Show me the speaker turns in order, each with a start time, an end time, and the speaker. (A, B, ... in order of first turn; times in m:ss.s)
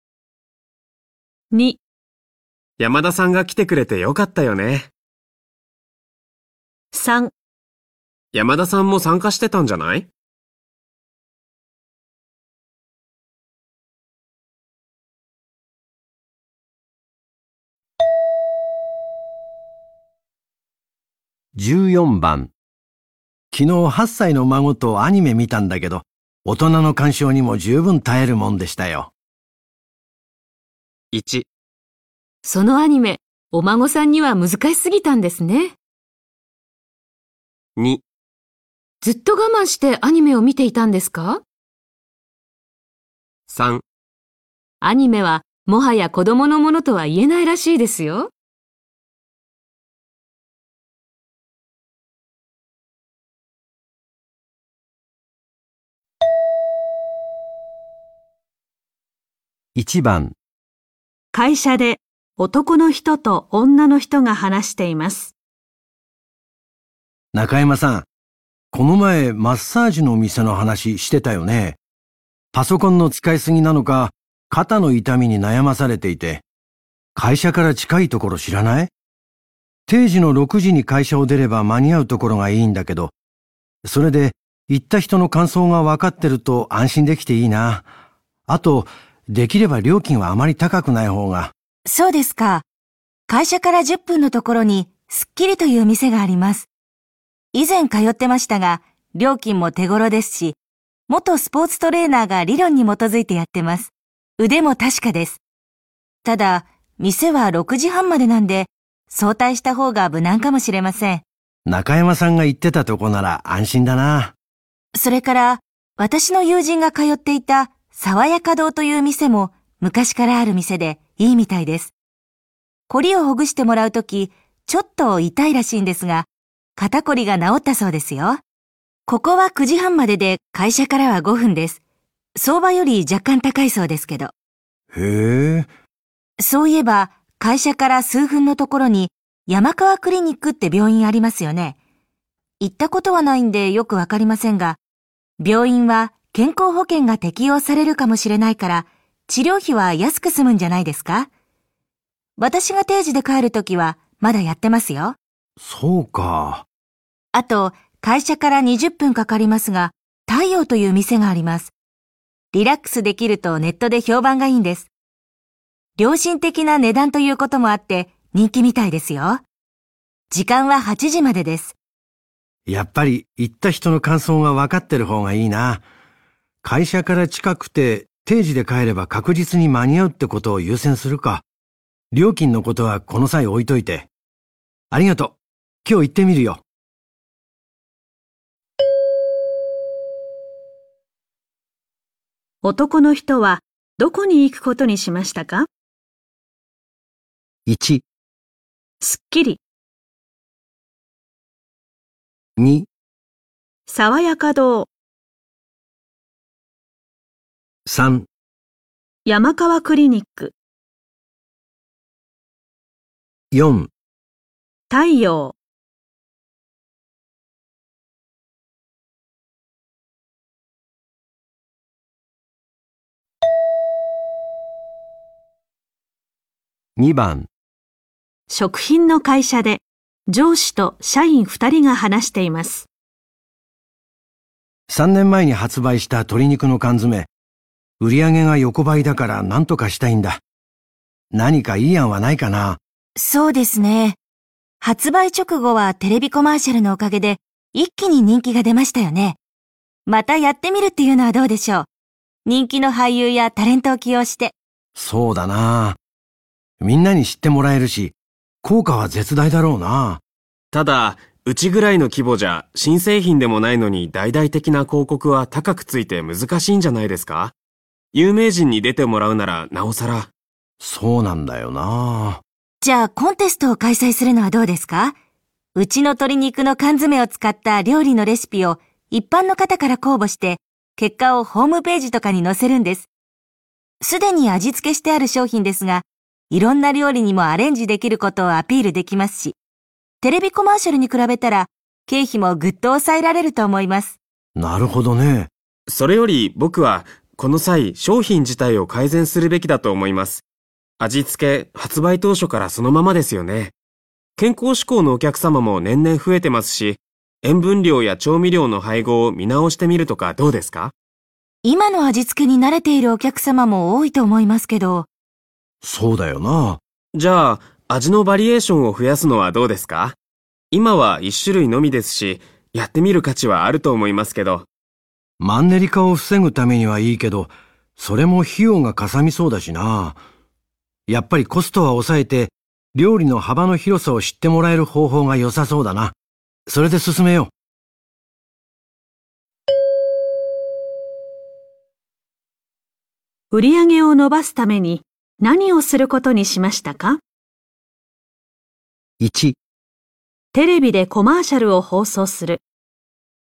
0:01.5-0:01.8 A
0:02.8-0:04.9 B
0:06.9-0:07.3 A
0:08.3-0:10.1 B
0:21.6-0:22.5 C
0:23.5-0:29.1 C
0:31.1-0:31.4 B
0:32.4-0:35.8 D
0:37.8-0:38.0 B
0:39.0-0:41.4 D
0:43.5-0:43.8 B
0:44.8-0:48.3 D
0:59.8-1:00.4 C
1:01.3-1:05.3 A
1:07.3-1:08.1 C
1:08.7-1:11.8 C
1:12.5-1:16.4 C
1:17.1-1:18.9 C
1:19.9-1:23.1 C
1:23.8-1:27.9 C
1:28.5-1:31.5 C
1:31.9-1:32.7 E
1:33.3-1:36.7 E
1:37.5-1:45.4 E
1:46.2-1:51.2 E
1:51.7-1:54.3 C
1:55.0-2:01.9 E
2:02.9-2:08.4 E
2:09.1-2:11.8 E
2:12.4-2:14.3 E
2:14.9-2:15.7 C
2:16.4-2:21.8 E
2:22.6-2:24.8 E
2:25.4-2:31.3 E
2:32.4-2:35.2 E
2:35.6-2:36.7 C
2:37.3-2:41.7 E
2:42.5-2:44.9 E
2:46.0-2:49.4 E
2:50.3-2:51.8 E
2:52.7-2:55.8 C
2:56.6-3:01.4 C
3:02.1-3:04.1 C
3:04.9-3:06.6 C
3:12.6-3:15.7 A
3:17.7-3:18.0 C
3:19.0-3:19.6 A
3:22.6-3:22.9 C
3:23.9-3:24.9 A
3:27.9-3:28.3 C
3:29.3-3:30.6 A
3:33.5-3:33.9 C
3:34.9-3:35.6 A
3:47.0-3:47.5 C
3:48.5-3:52.9 A
3:54.9-3:57.3 C
3:58.0-4:00.4 C
4:01.3-4:02.8 C
4:03.2-4:04.2 E
4:04.8-4:09.4 E
4:10.1-4:11.9 E
4:12.4-4:14.6 E
4:15.0-4:16.0 C
4:16.8-4:20.2 C
4:20.7-4:27.5 B
4:28.1-4:30.3 B
4:30.8-4:32.4 C
4:32.8-4:35.2 E
4:35.8-4:43.1 E
4:44.0-4:49.6 E
4:50.2-4:54.2 E
4:54.6-4:55.5 C
4:55.9-5:00.4 B
5:01.0-5:03.7 B
5:04.4-5:10.9 B
5:11.6-5:15.1 E
5:15.8-5:16.8 C
5:17.1-5:20.2 B
5:20.7-5:24.7 B
5:25.4-5:30.2 C
5:31.1-5:36.2 C
5:36.7-5:37.5 C
5:43.5-5:47.2 A
5:49.2-5:49.6 C
5:50.5-5:52.6 A